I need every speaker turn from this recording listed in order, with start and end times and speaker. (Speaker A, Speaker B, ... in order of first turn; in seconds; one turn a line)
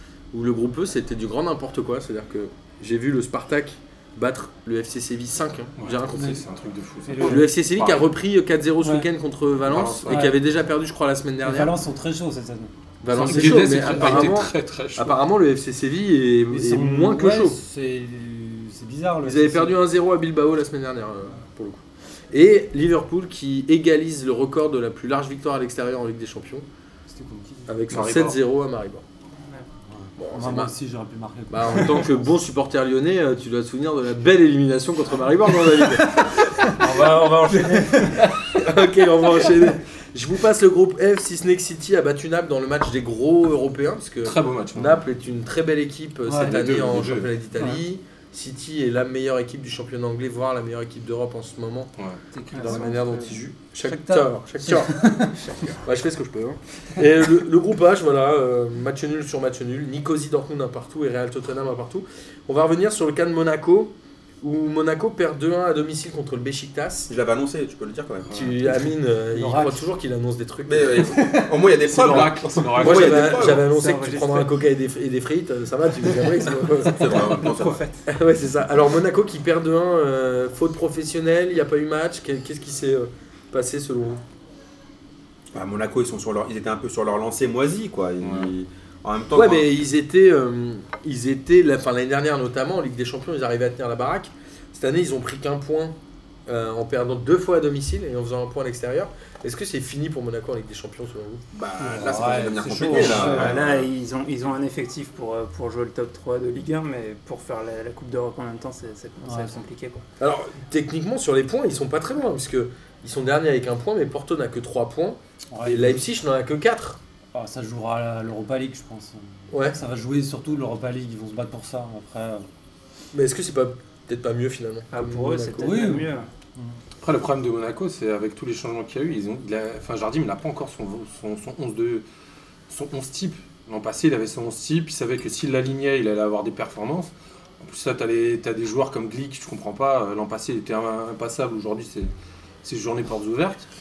Speaker A: 0.3-6.4
Speaker B: 5.8-8.1
Speaker C: 6.2-6.4
Speaker C: 7.0-7.5
Speaker A: 7.2-11.7
Speaker C: 8.8-9.1
Speaker B: 9.7-10.3
Speaker C: 10.1-10.4
Speaker C: 11.4-14.4
Speaker A: 13.0-17.6
Speaker B: 13.1-15.2
Speaker C: 16.5-19.8
Speaker A: 19.2-26.6
Speaker C: 27.1-27.8
Speaker A: 27.7-29.0
Speaker B: 27.9-28.4
Speaker C: 29.9-32.3
Speaker A: 30.2-30.7
Speaker A: 31.5-36.4
Speaker D: 36.6-38.3
Speaker C: 37.6-38.3
Speaker A: 38.2-51.9
Speaker B: 44.2-45.0
Speaker C: 46.2-46.6
Speaker B: 46.4-47.3
Speaker D: 52.3-53.4
Speaker A: 52.5-55.1
Speaker C: 53.8-55.8
Speaker A: 55.6-67.1
Speaker E: 67.1-68.3
Speaker A: 68.3-71.1
Speaker C: 69.3-69.9
Speaker E: 70.7-73.7
Speaker C: 71.0-72.3
Speaker B: 71.9-73.6
Speaker A: 72.8-77.3
Speaker D: 73.0-74.5
Speaker E: 76.9-77.8
Speaker D: 77.4-78.0
Speaker A: 78.0-84.2
Speaker E: 85.5-89.8
Speaker B: 88.2-88.5
Speaker A: 89.3-96.0
Speaker A: 96.5-101.4
Speaker E: 101.5-103.9
Speaker C: 101.8-103.6
Speaker D: 102.8-110.0
Speaker C: 109.2-109.6
Speaker A: 110.2-117.0
Speaker C: 115.5-116.0
Speaker C: 117.3-122.5
Speaker A: 119.5-119.8
Speaker A: 123.1-125.8
Speaker D: 124.9-126.3
Speaker C: 125.6-126.8
Speaker B: 127.0-132.0
Speaker B: 132.7-142.1
Speaker B: 142.6-143.6